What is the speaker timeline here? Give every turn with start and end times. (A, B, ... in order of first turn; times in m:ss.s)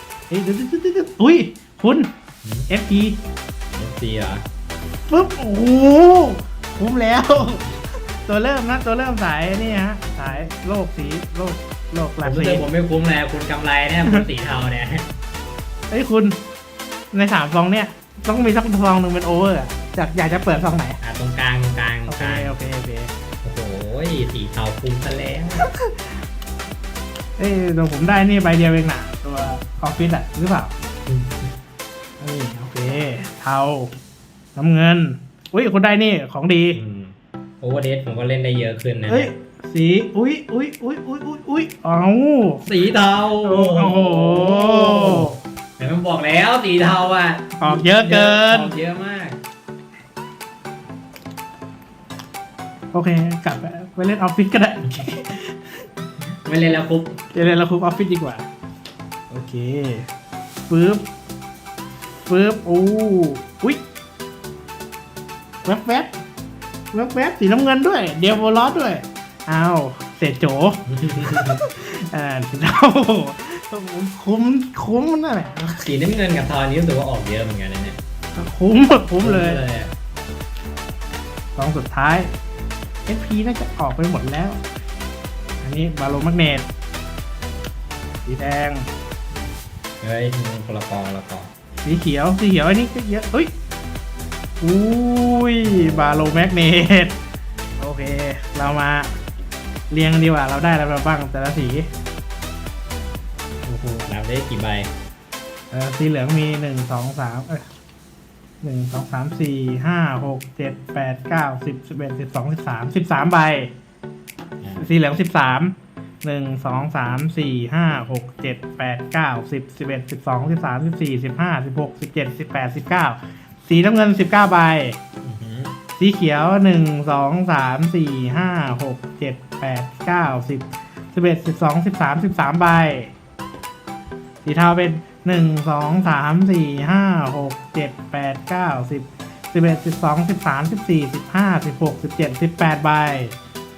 0:00.3-0:02.1 A
0:02.7-0:03.2 A
0:03.8-0:04.4 B
0:05.1-0:12.7 A
0:12.2-0:15.1 B
0:15.9-0:16.4 A
0:17.1-0:21.0 A
0:21.0-0:22.6 B
0:22.1-0:23.1 A
0:23.4-0:25.7 B
0:27.4-0:30.7 A
0:31.1-0:31.4 B
0:32.2-0:33.9 A
0:34.6-0:36.8 A
0:36.7-0:39.3 B
0:39.1-0:42.7 A
0:42.6-0:49.4 B
0:43.4-0:45.4 A
0:47.6-0:48.8 A
0:52.9-0:55.6 A
0:56.4-0:57.2 B
0:57.3-0:58.5 A
0:59.3-1:00.1 A
1:00.7-1:01.0 A
1:02.2-1:03.8 A
1:05.6-1:06.1 A
1:06.9-1:15.9 A
1:11.0-1:11.6 B
1:15.8-1:18.0 B
1:18.4-1:19.6 A
1:19.2-1:19.9 B
1:21.6-1:22.3 A
1:23.1-1:24.6 A
1:25.6-1:26.7 A
1:28.2-1:28.9 A
1:30.0-1:31.5 B
1:31.8-1:33.5 A
1:34.6-1:37.2 A
1:35.6-1:36.5 B
1:37.8-1:39.1 A
1:39.9-1:41.9 A
1:43.6-1:44.1 A
1:44.1-1:44.9 B
1:45.7-1:47.6 A
1:48.6-1:53.7 A
1:54.6-1:54.9 B
1:54.8-2:05.0 A
2:05.2-2:05.8 B
2:06.0-2:13.1 A
2:14.4-2:23.4 A